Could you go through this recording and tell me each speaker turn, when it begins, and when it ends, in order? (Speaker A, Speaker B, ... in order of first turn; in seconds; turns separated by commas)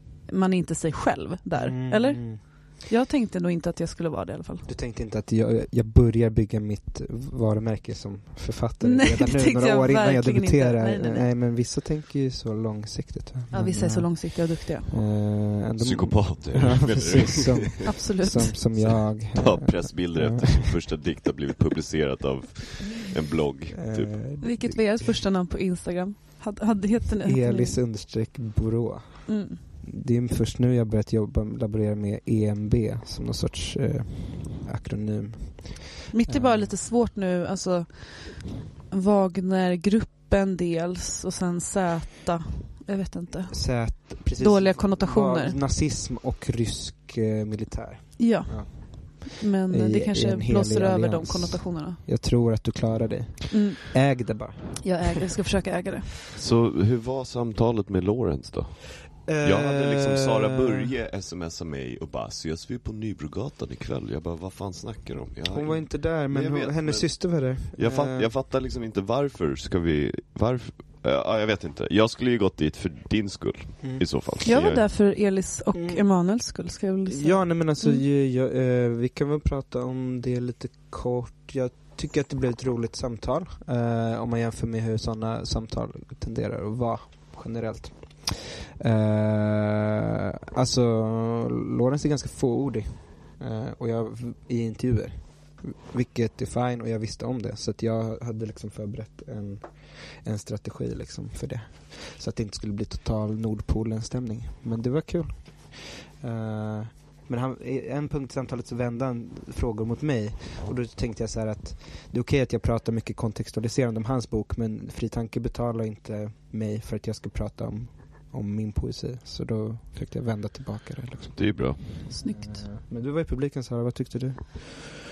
Speaker A: 0.3-4.7, Speaker B: 1.6-2.4, Speaker B: 4.7-20.8, Speaker A: 8.8-11.3, Speaker A: 13.5-14.9, Speaker C: 15.8-17.8, Speaker A: 17.9-18.6, Speaker C: 18.8-24.2, Speaker B: 23.7-25.0, Speaker A: 24.4-27.8, Speaker B: 27.2-36.8, Speaker A: 29.3-29.6, Speaker A: 36.1-45.6, Speaker B: 43.5-55.1, Speaker A: 48.2-52.0, Speaker A: 53.5-54.0, Speaker A: 54.8-56.1, Speaker C: 56.3-74.8, Speaker B: 59.2-60.9, Speaker B: 65.5-68.3, Speaker B: 73.8-74.1, Speaker A: 74.4-78.0, Speaker B: 75.7-76.3, Speaker B: 77.1-90.0, Speaker B: 90.5-124.8, Speaker C: 121.3-122.1, Speaker A: 122.1-122.6